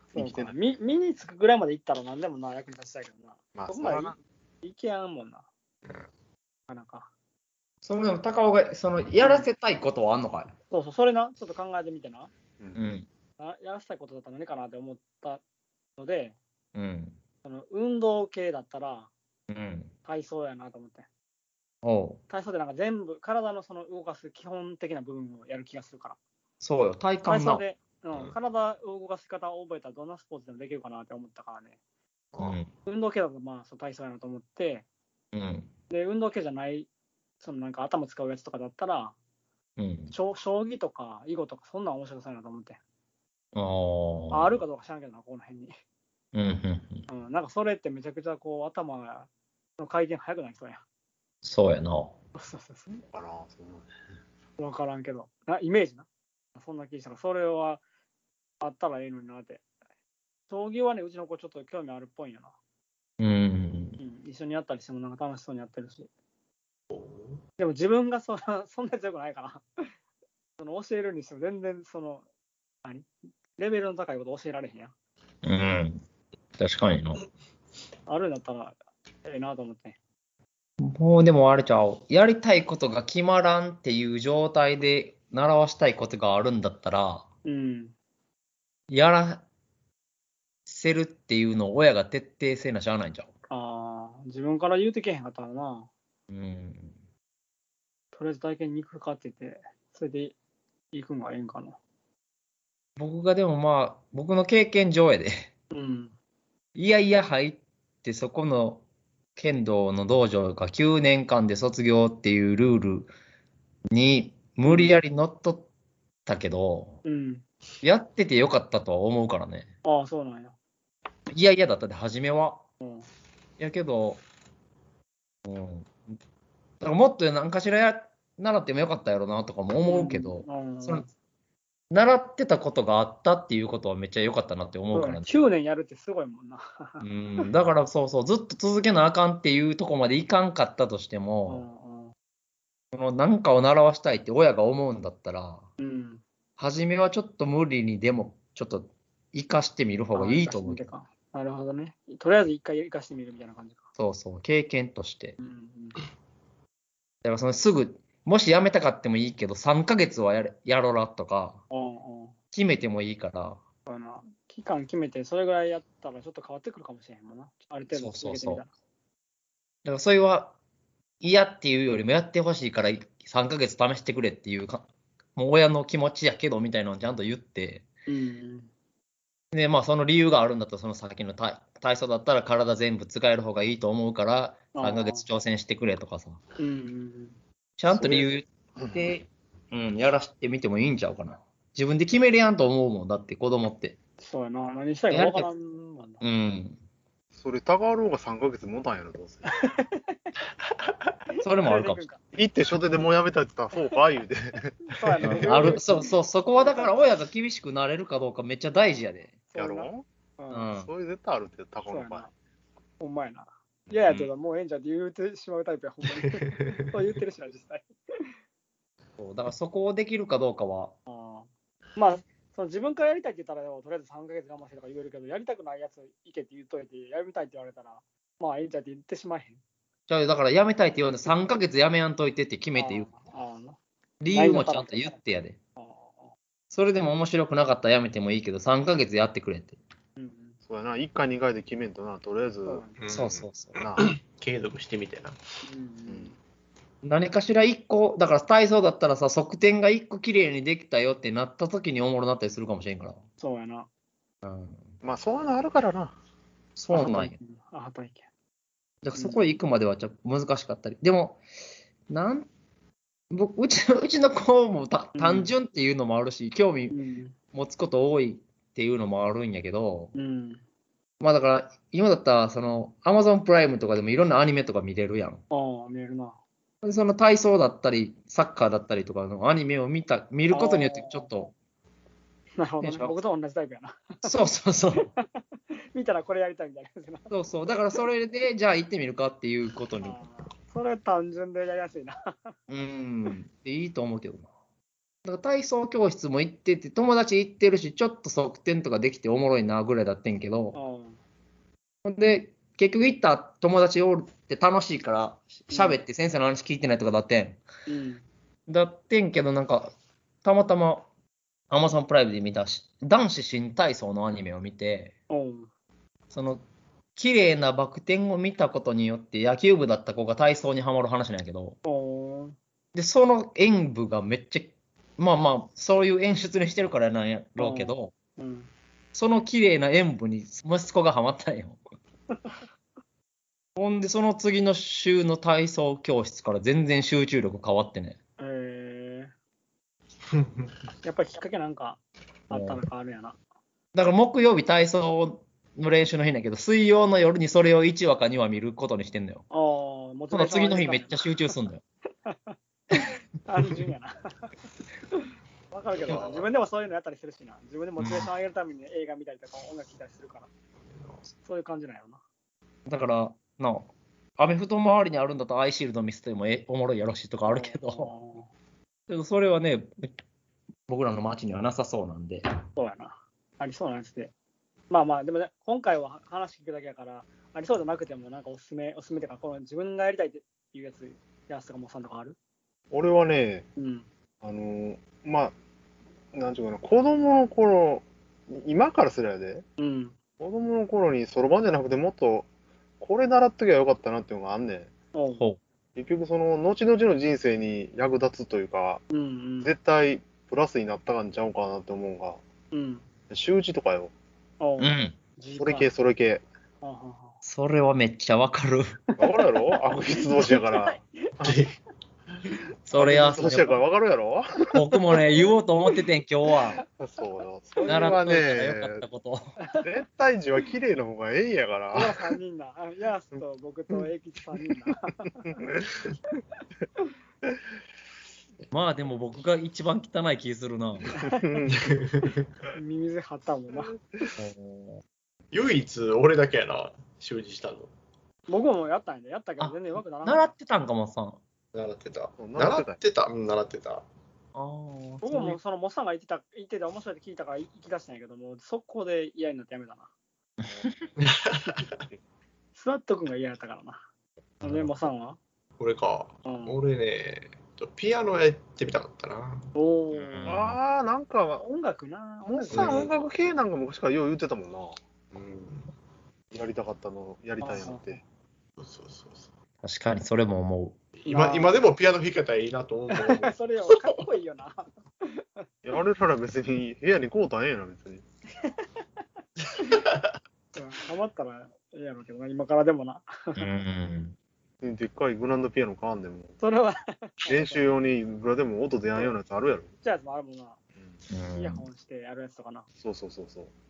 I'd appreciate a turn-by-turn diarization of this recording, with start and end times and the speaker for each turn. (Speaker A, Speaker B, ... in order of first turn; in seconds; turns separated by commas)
Speaker A: 0.1-5.5, Speaker B: 0.1-0.5, Speaker B: 3.5-4.2, Speaker A: 6.7-7.1, Speaker C: 7.8-10.5, Speaker A: 9.2-9.5, Speaker A: 10.7-12.3, Speaker B: 12.6-12.9, Speaker C: 12.7-13.1, Speaker A: 13.4-15.4, Speaker A: 16.0-16.4, Speaker C: 16.7-17.1, Speaker A: 17.4-19.1, Speaker C: 19.5-19.9, Speaker A: 20.1-21.1, Speaker C: 21.8-22.2, Speaker A: 22.3-26.2, Speaker C: 26.6-27.6, Speaker A: 27.2-31.8, Speaker C: 32.4-32.7, Speaker A: 32.8-34.9, Speaker C: 35.3-35.7, Speaker A: 35.9-36.9, Speaker A: 37.4-39.1, Speaker C: 39.8-40.1, Speaker A: 40.1-42.8, Speaker C: 43.5-44.6, Speaker A: 44.3-45.7, Speaker C: 46.3-47.1, Speaker A: 47.1-50.8, Speaker C: 51.4-52.1, Speaker A: 52.3-53.0, Speaker B: 53.1-53.9, Speaker A: 54.6-57.8, Speaker A: 58.6-59.6, Speaker A: 60.5-62.5, Speaker C: 63.2-64.0, Speaker A: 64.0-66.1, Speaker D: 66.9-67.4, Speaker A: 67.6-69.9, Speaker A: 70.6-72.2, Speaker A: 72.8-74.9, Speaker C: 75.4-76.0, Speaker C: 76.6-77.2, Speaker A: 78.1-80.0, Speaker C: 80.8-87.2, Speaker A: 87.4-87.9, Speaker C: 88.9-89.4, Speaker C: 90.7-93.3, Speaker A: 93.5-95.9, Speaker C: 96.3-97.0, Speaker A: 98.1-100.3, Speaker A: 100.9-101.8, Speaker C: 103.0-105.5, Speaker A: 105.7-106.1, Speaker C: 106.7-108.8, Speaker C: 109.3-113.1, Speaker C: 113.9-115.7, Speaker A: 114.6-114.9, Speaker C: 116.2-117.0, Speaker A: 117.0-117.5, Speaker C: 117.8-119.7, Speaker A: 119.8-120.5, Speaker C: 121.3-122.6, Speaker A: 122.8-123.0, Speaker C: 123.6-124.2, Speaker C: 125.4-126.2, Speaker C: 126.8-131.1, Speaker A: 129.8-131.1, Speaker C: 131.9-135.3, Speaker A: 134.9-137.0, Speaker C: 137.0-141.6, Speaker A: 141.5-142.1, Speaker C: 142.9-145.7, Speaker A: 145.8-146.2, Speaker C: 146.6-150.9, Speaker A: 150.1-153.8, Speaker C: 154.0-155.4, Speaker A: 155.4-156.0, Speaker C: 157.2-161.6, Speaker A: 161.7-162.3, Speaker C: 162.5-163.6, Speaker A: 163.8-168.7, Speaker C: 167.9-168.6, Speaker C: 169.8-170.5, Speaker C: 171.2-177.8, Speaker A: 178.1-178.7, Speaker C: 179.5-186.4, Speaker A: 184.7-185.2, Speaker A: 186.6-187.3, Speaker C: 187.8-194.0, Speaker B: 187.9-189.1, Speaker A: 194.2-196.2, Speaker C: 195.1-195.5, Speaker C: 196.2-196.8, Speaker B: 197.3-199.5, Speaker A: 199.5-200.3, Speaker A: 201.4-202.2, Speaker C: 201.4-202.0, Speaker B: 202.3-205.8, Speaker A: 204.9-206.9, Speaker C: 205.2-209.4, Speaker A: 209.5-210.7, Speaker B: 209.5-210.0, Speaker C: 210.5-210.9, Speaker B: 210.8-212.3, Speaker A: 211.9-212.3, Speaker A: 213.0-217.9, Speaker C: 219.2-220.9, Speaker A: 221.1-229.6, Speaker C: 230.1-233.1, Speaker A: 232.7-233.8, Speaker C: 234.2-235.6, Speaker A: 234.3-235.2, Speaker A: 235.8-236.3, Speaker C: 236.7-239.8, Speaker A: 240.2-240.6, Speaker B: 240.7-242.8, Speaker A: 242.7-243.0, Speaker D: 243.0-245.4, Speaker C: 243.1-243.7, Speaker B: 243.8-244.1, Speaker A: 245.6-246.4, Speaker C: 247.0-253.2, Speaker A: 253.4-253.9, Speaker C: 254.4-254.9, Speaker B: 255.0-256.1, Speaker C: 256.8-257.4, Speaker A: 256.9-258.2, Speaker C: 259.0-261.4, Speaker A: 259.1-259.4, Speaker C: 262.1-262.5, Speaker C: 263.3-266.9, Speaker A: 265.1-265.5, Speaker A: 266.9-267.3, Speaker C: 267.5-270.1, Speaker A: 270.1-270.6, Speaker C: 271.2-275.4, Speaker A: 275.5-276.4, Speaker C: 276.8-281.5, Speaker A: 280.5-281.3, Speaker A: 282.6-284.3, Speaker C: 282.8-283.2, Speaker C: 284.2-285.1, Speaker A: 285.0-285.4, Speaker A: 285.9-287.3, Speaker C: 287.3-290.2, Speaker A: 290.0-292.6, Speaker C: 292.7-294.5, Speaker C: 295.2-300.8, Speaker A: 300.7-301.2, Speaker C: 302.0-307.6, Speaker A: 305.7-306.0, Speaker A: 307.9-308.2, Speaker C: 308.7-309.9, Speaker C: 310.4-311.1, Speaker C: 311.7-315.1, Speaker A: 315.3-315.7, Speaker C: 316.3-316.6, Speaker C: 317.1-321.8, Speaker A: 321.8-322.6, Speaker C: 322.9-328.1, Speaker A: 327.6-328.7, Speaker C: 329.1-331.8, Speaker C: 333.8-338.2, Speaker A: 338.4-339.3, Speaker A: 341.0-343.4, Speaker C: 342.5-342.8, Speaker C: 343.9-349.4, Speaker A: 349.5-351.3, Speaker C: 350.3-351.8, Speaker A: 352.2-352.6, Speaker A: 353.4-354.5, Speaker A: 355.1-360.5, Speaker D: 356.0-356.5, Speaker C: 358.0-358.3, Speaker D: 360.9-361.2, Speaker A: 361.4-362.2, Speaker C: 362.9-363.9, Speaker C: 364.4-368.1, Speaker A: 367.5-368.5, Speaker C: 369.1-370.1, Speaker C: 370.9-372.4, Speaker A: 372.8-374.3, Speaker A: 374.9-382.4, Speaker B: 382.9-383.7, Speaker A: 383.8-384.1, Speaker B: 384.4-385.5, Speaker B: 386.3-389.6, Speaker A: 389.8-390.1, Speaker B: 390.4-392.5, Speaker B: 393.0-394.9, Speaker A: 395.1-395.4, Speaker B: 395.9-399.0, Speaker A: 399.1-399.7, Speaker B: 399.6-402.4, Speaker A: 402.7-403.1, Speaker B: 403.3-404.1, Speaker A: 404.6-405.9, Speaker C: 404.8-405.1, Speaker B: 405.6-406.4, Speaker A: 406.8-407.4, Speaker C: 407.4-408.9, Speaker A: 409.1-411.3, Speaker B: 409.2-411.6, Speaker D: 411.4-411.7, Speaker C: 412.9-413.8, Speaker B: 412.9-414.7, Speaker C: 414.7-416.8, Speaker B: 417.0-419.0, Speaker A: 417.8-418.1, Speaker C: 417.9-419.5, Speaker A: 419.6-419.9, Speaker B: 419.8-422.3, Speaker A: 421.9-425.6, Speaker B: 425.6-425.9, Speaker C: 428.7-431.1, Speaker A: 431.2-431.4, Speaker B: 431.3-431.9, Speaker D: 431.7-432.5, Speaker A: 432.7-433.9, Speaker C: 434.4-435.0, Speaker D: 435.5-437.9, Speaker A: 438.5-440.5, Speaker C: 439.6-441.4, Speaker D: 441.7-444.0, Speaker B: 442.4-443.0, Speaker C: 444.5-445.6, Speaker A: 445.2-450.1, Speaker C: 450.6-450.9, Speaker D: 451.2-451.9, Speaker A: 452.7-454.0, Speaker C: 454.6-454.9, Speaker A: 454.6-455.4, Speaker D: 455.8-459.7, Speaker A: 456.4-456.8, Speaker A: 459.7-460.6, Speaker C: 460.1-460.8, Speaker B: 460.4-461.6, Speaker A: 461.6-463.0, Speaker B: 462.4-464.9, Speaker D: 462.7-463.1, Speaker D: 465.3-465.9, Speaker B: 466.5-468.2, Speaker A: 467.6-468.2, Speaker D: 468.8-469.5, Speaker C: 469.8-471.0, Speaker D: 471.2-474.0, Speaker A: 471.3-471.8, Speaker A: 473.1-475.7, Speaker B: 475.8-478.2, Speaker A: 478.6-478.9, Speaker D: 479.9-480.2, Speaker A: 480.7-483.6, Speaker C: 483.6-484.4, Speaker B: 484.8-486.6, Speaker A: 486.6-487.9, Speaker B: 487.5-489.9, Speaker A: 490.0-490.8, Speaker C: 491.3-491.9, Speaker A: 491.5-492.9, Speaker B: 493.0-493.7